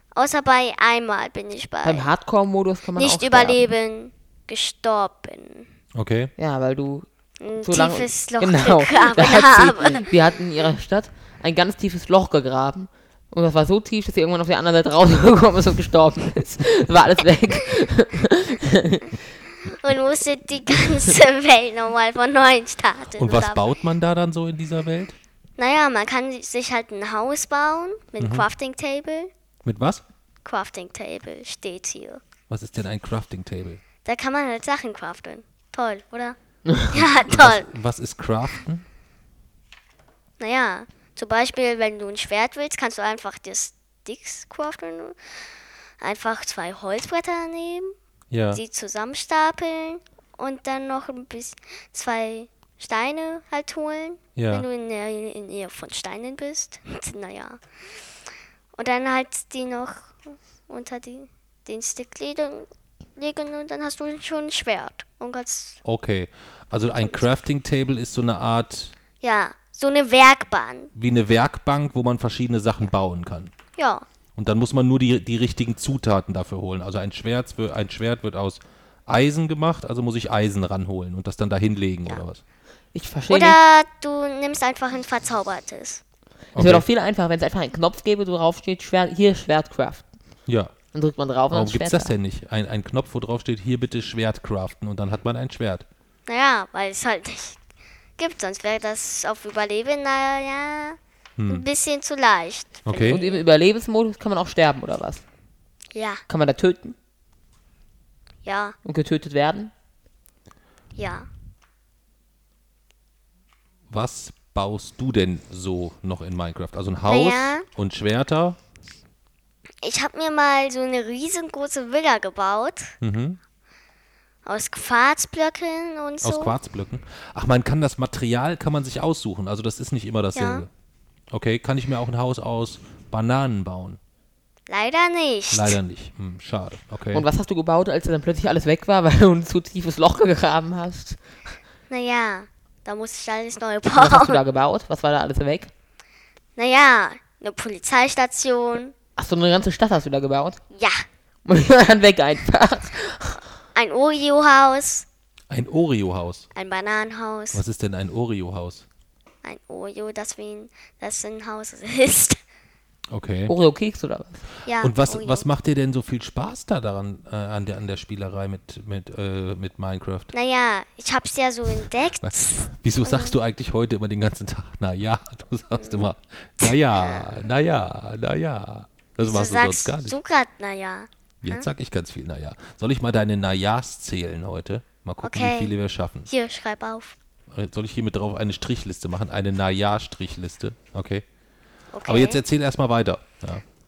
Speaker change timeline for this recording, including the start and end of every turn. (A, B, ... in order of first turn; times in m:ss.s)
0:00.1-0:02.1 A
0:01.8-0:03.6 B
0:03.0-0:05.7 A
0:05.9-0:06.3 C
0:06.4-0:07.1 B
0:07.4-0:10.1 A
0:07.6-0:19.2 B
0:19.6-0:23.6 A
0:23.2-0:25.2 C
0:25.6-0:29.3 A
0:28.2-0:28.5 C
0:29.6-0:30.0 C
0:30.4-0:32.2 A
0:32.5-0:33.8 C
0:34.0-0:37.7 A
0:37.0-0:38.8 C
0:40.4-0:45.2 A
0:46.0-0:47.9 A
0:48.3-0:48.6 C
0:48.5-0:57.6 A
0:54.4-0:54.6 C
0:58.7-1:05.8 A
1:05.8-1:08.9 C
1:09.2-1:10.9 A
1:10.9-1:13.5 C
1:13.8-1:14.0 A
1:14.4-1:22.4 C
1:22.9-1:23.6 B
1:23.3-1:26.0 A
1:26.5-1:26.8 C
1:26.6-1:30.1 B
1:30.5-1:30.7 C
1:30.9-1:32.1 B
1:31.5-1:35.8 C
1:36.3-1:37.6 A
1:38.2-1:43.3 A
1:41.4-1:41.6 C
1:42.8-1:43.2 C
1:43.0-1:45.2 B
1:45.9-1:46.2 A
1:46.3-1:47.0 B
1:48.4-1:48.8 A
1:48.8-1:49.7 B
1:51.0-1:51.3 A
1:53.9-1:58.6 C
1:57.1-1:57.7 A
1:59.8-2:02.9 A
2:03.0-2:03.4 C
2:04.4-2:06.5 A
2:06.2-2:10.7 C
2:10.3-2:10.6 A
2:11.3-2:14.0 C
2:14.7-2:15.8 A
2:15.5-2:17.2 C
2:17.1-2:21.2 B
2:21.9-2:24.4 A
2:23.9-2:25.7 B
2:26.6-2:28.9 A
2:29.2-2:30.6 B
2:30.7-2:31.0 A
2:31.4-2:33.4 B
2:33.7-2:35.0 A
2:35.5-2:36.4 C
2:36.5-2:37.6 A
2:37.5-2:38.8 C
2:39.4-2:42.4 A
2:43.1-2:43.5 C
2:43.5-2:44.4 B
2:44.6-2:45.5 A
2:44.8-2:50.3 C
2:50.3-2:53.3 A
2:52.2-3:00.2 C
2:55.8-2:56.1 A
2:56.6-2:57.2 A
2:59.2-3:01.6 A
3:01.4-3:06.3 C
3:05.2-3:05.7 A
3:06.3-3:07.2 A
3:07.5-3:11.2 C
3:11.9-3:12.4 A
3:12.0-3:13.6 C